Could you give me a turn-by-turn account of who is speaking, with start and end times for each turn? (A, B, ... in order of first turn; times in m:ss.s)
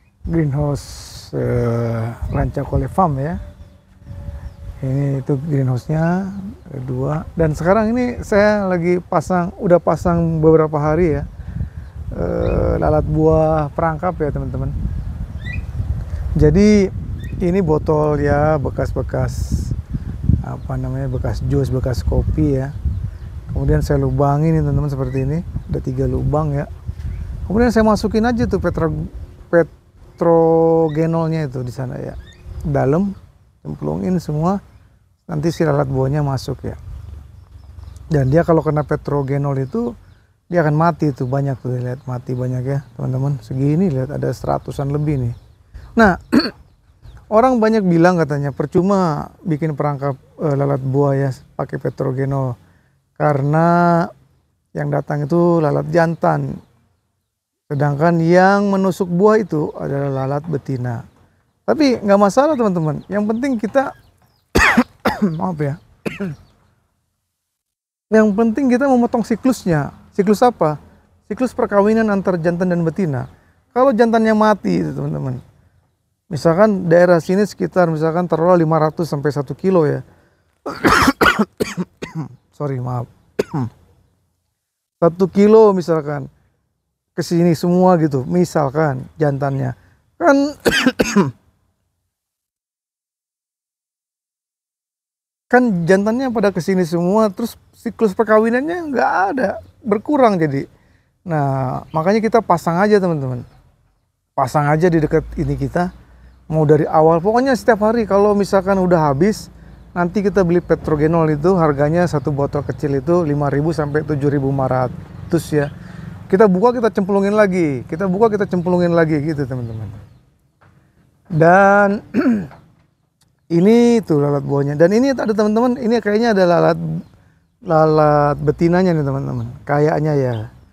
0:00.3-0:03.4 A
0:04.8-0:11.3 A
0:12.1-0:14.8 A
0:16.4-0:19.8 A
0:20.4-0:22.7 A
0:23.5-0:26.7 A
0:27.4-0:33.1 A
0:33.6-0:34.6 A
0:35.2-0:36.8 A
0:38.1-0:39.9 A
0:40.5-0:45.3 A
0:46.0-0:46.6 A
0:47.3-0:52.6 A
0:53.2-0:54.1 A
0:54.7-0:56.6 A
0:57.7-1:01.0 A
1:01.7-1:03.9 A
1:04.5-1:06.4 A
1:08.1-1:10.8 A
1:11.3-1:15.4 A
1:16.3-1:20.0 A
1:20.6-1:23.7 A
1:25.0-1:26.3 A
1:27.2-1:31.3 A
1:35.5-1:40.7 A
1:41.3-1:43.4 A
1:44.4-1:45.9 A
1:46.5-1:55.7 A
1:56.3-2:00.0 A
2:01.4-2:02.5 A
2:03.5-2:06.8 A
2:07.7-2:10.4 A